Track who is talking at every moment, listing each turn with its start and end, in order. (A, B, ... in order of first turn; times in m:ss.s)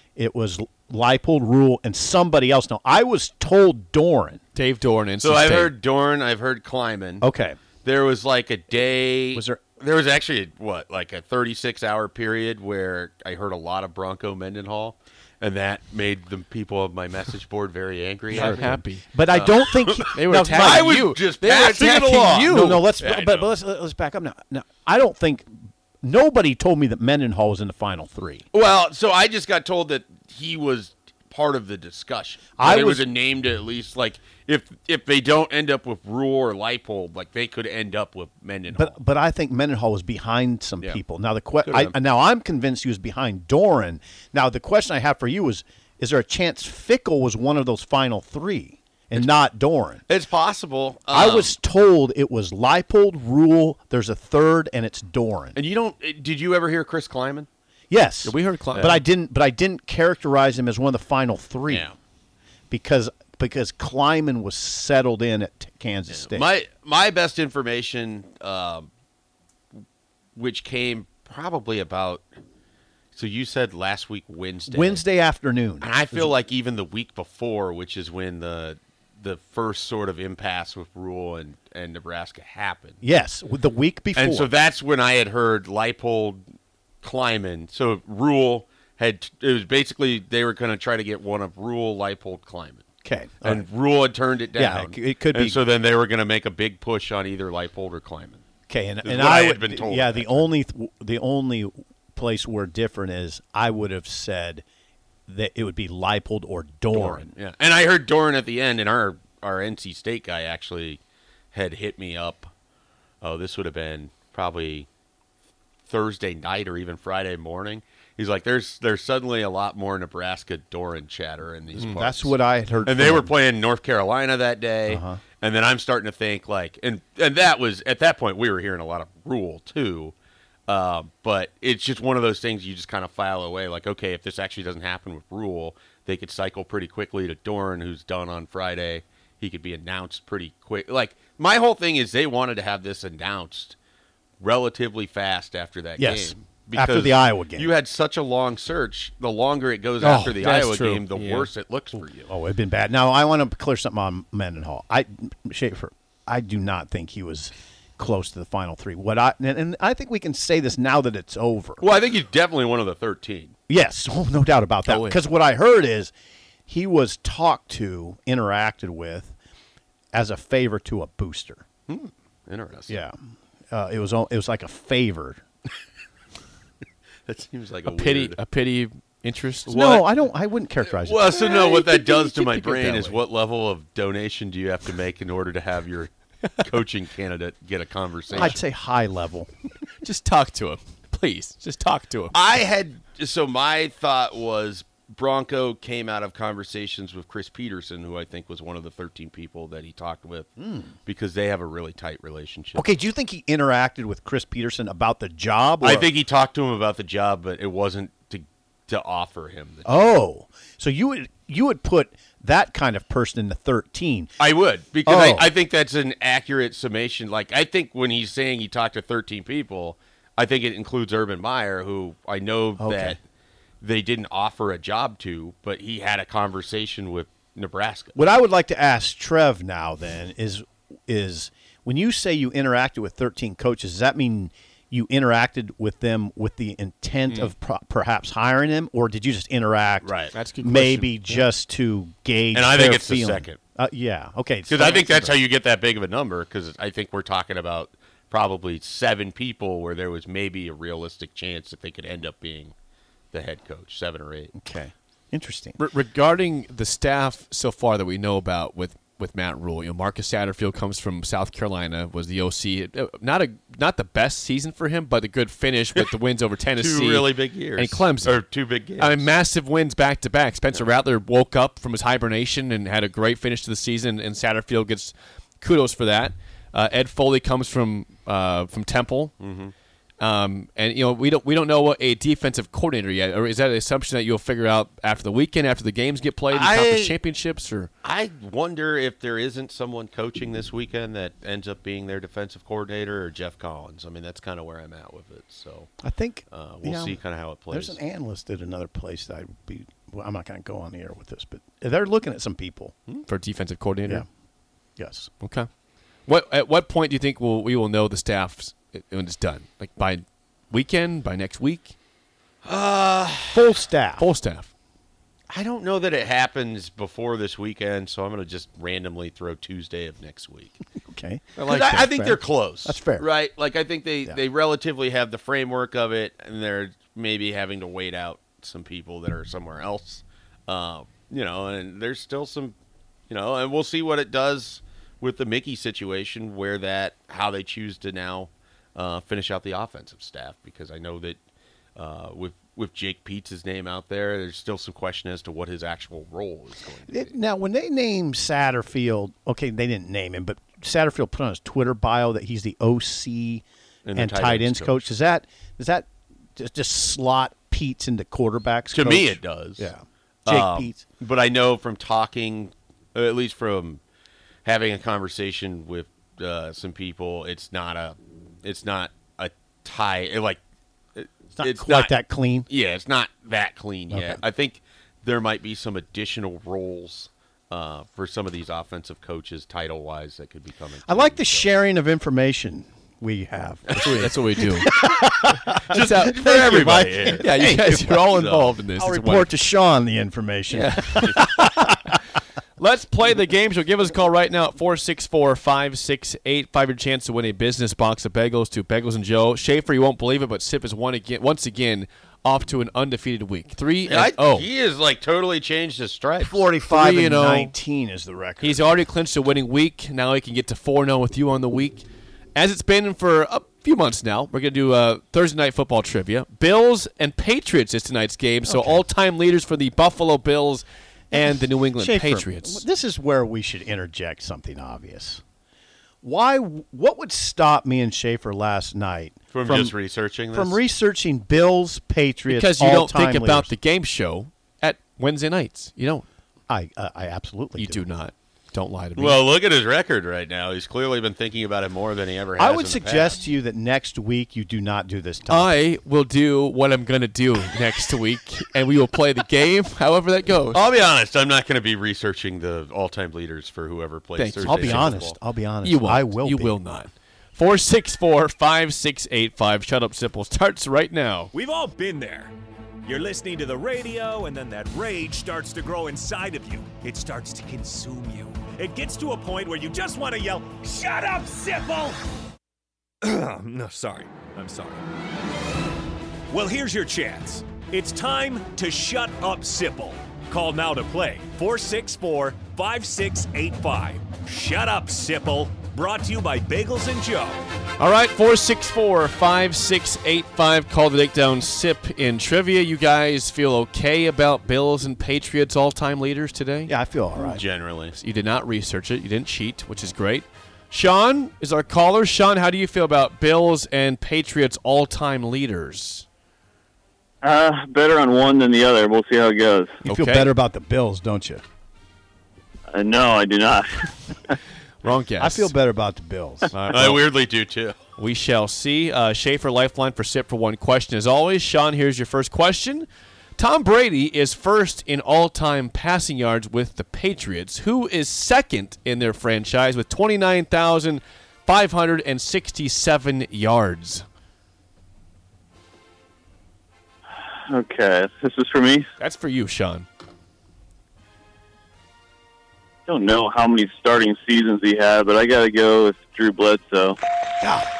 0:00.2-0:04.4 A
0:04.5-0:05.7 B
0:05.2-0:07.2 C
0:07.2-0:07.6 A
0:07.8-0:23.5 C
0:09.3-0:09.6 A
0:18.3-0:19.0 B
0:18.3-0:21.0 A
0:20.1-0:22.9 B
0:22.3-0:28.4 A
0:28.5-0:39.0 C
0:32.6-0:33.1 A
0:38.7-0:50.0 A
0:41.6-0:41.9 C
0:50.1-0:51.5 C
0:51.1-0:55.6 A
0:55.5-0:57.5 C
0:57.9-1:01.9 A
0:58.2-0:59.0 B
1:01.7-1:01.9 C
1:02.7-1:06.5 A
1:06.1-1:08.9 C
1:10.4-1:12.3 C
1:13.1-1:15.0 C
1:14.7-1:16.3 A
1:15.8-1:23.0 C
1:23.0-1:24.5 A
1:24.1-1:26.5 C
1:27.0-1:32.8 C
1:33.0-1:33.7 A
1:33.4-1:38.4 C
1:34.5-1:35.6 A
1:38.7-1:44.6 A
1:39.0-1:40.5 C
1:45.3-1:47.3 A
1:46.9-1:51.0 C
1:51.5-1:52.5 C
1:53.2-1:54.9 C
1:55.9-2:10.1 C
2:01.7-2:03.3 A
2:04.9-2:05.2 A
2:10.7-2:23.8 C
2:24.4-2:32.2 C
2:26.0-2:27.7 A
2:30.0-2:41.8 A
2:41.8-2:43.5 C
2:43.7-2:46.1 A
2:44.8-2:45.2 B
2:46.7-2:49.4 A
2:50.1-2:51.6 A
2:51.9-2:53.0 C
2:52.9-2:53.1 A
2:53.7-2:55.4 A
2:57.2-2:58.4 C
2:57.8-2:59.7 B
2:59.7-3:00.1 C
2:59.7-3:01.8 A
3:00.8-3:08.6 C
3:01.6-3:03.2 B
3:08.3-3:09.5 A
3:10.0-3:12.3 B
3:12.3-3:20.5 C
3:20.6-3:20.9 A
3:21.0-3:22.9 C
3:22.7-3:26.1 A
3:25.8-3:29.9 C
3:29.8-3:34.3 A
3:34.4-3:43.2 C
3:35.0-3:35.5 A
3:42.8-3:43.2 A
3:43.8-3:48.2 C
3:48.1-4:05.4 A
4:00.0-4:00.3 C
4:00.3-4:01.5 B
4:02.5-4:03.6 C
4:04.7-4:12.7 C
4:13.3-4:14.5 C
4:14.5-4:15.8 A
4:15.8-4:28.4 B
4:26.8-4:29.3 C
4:29.0-4:39.3 B
4:39.4-4:39.7 C
4:40.2-4:47.9 B
4:46.5-4:47.2 C
4:48.0-4:55.9 C
4:56.0-5:02.9 A
4:56.5-4:58.0 C
5:03.2-5:04.2 B
5:05.0-5:05.3 A
5:05.4-5:05.7 B
5:06.2-5:11.9 B
5:12.6-5:13.7 C
5:13.5-5:14.3 A
5:14.2-5:14.7 B
5:15.5-5:20.8 C
5:21.0-5:23.3 A
5:21.6-5:22.0 B
5:21.6-5:32.7 C
5:33.3-5:41.4 C
5:42.0-5:47.4 C
5:47.1-6:01.0 A
5:54.0-5:55.0 C
5:58.9-5:59.9 C
6:00.4-6:04.0 C
6:04.6-6:10.6 C
6:11.1-6:12.1 C
6:11.6-6:12.7 A
6:12.7-6:21.7 C
6:14.1-6:14.4 A
6:21.0-6:28.2 A
6:23.9-6:24.2 C
6:24.0-6:24.8 B
6:25.9-6:28.8 C
6:25.9-6:29.5 B
6:28.9-6:32.1 A
6:30.7-6:32.0 B
6:32.8-6:44.6 B
6:44.0-6:46.6 C
6:46.4-6:49.0 A
6:46.9-6:47.7 B
6:48.6-7:02.8 B
6:58.7-6:59.0 A
7:01.3-7:05.4 A
7:06.2-7:10.0 A
7:09.5-7:10.8 C
7:10.5-7:13.7 A
7:12.5-7:16.2 B
7:16.7-7:18.1 A
7:17.8-7:19.4 B
7:19.2-7:23.4 C
7:22.6-7:25.7 A
7:25.5-7:30.8 B
7:30.7-7:35.4 C
7:34.4-7:35.2 B
7:34.6-7:36.8 A
7:35.8-7:41.5 B
7:41.5-7:42.5 D
7:43.0-7:52.2 D
7:53.2-7:55.0 D
7:56.5-8:07.6 D
8:08.0-8:16.9 B
8:16.9-8:17.6 A
8:17.4-8:18.1 C
8:18.1-8:26.2 B
8:27.4-8:30.0 E
8:30.0-8:31.6 A
8:30.0-8:30.5 B
8:32.9-8:34.5 E
8:35.0-8:35.7 B
8:35.4-8:36.7 A
8:36.7-8:37.2 B
8:36.9-8:38.0 C
8:38.2-8:54.2 B
8:57.7-8:59.1 E
8:59.2-9:00.1 B
9:03.1-9:07.2 E
9:07.6-9:07.9 A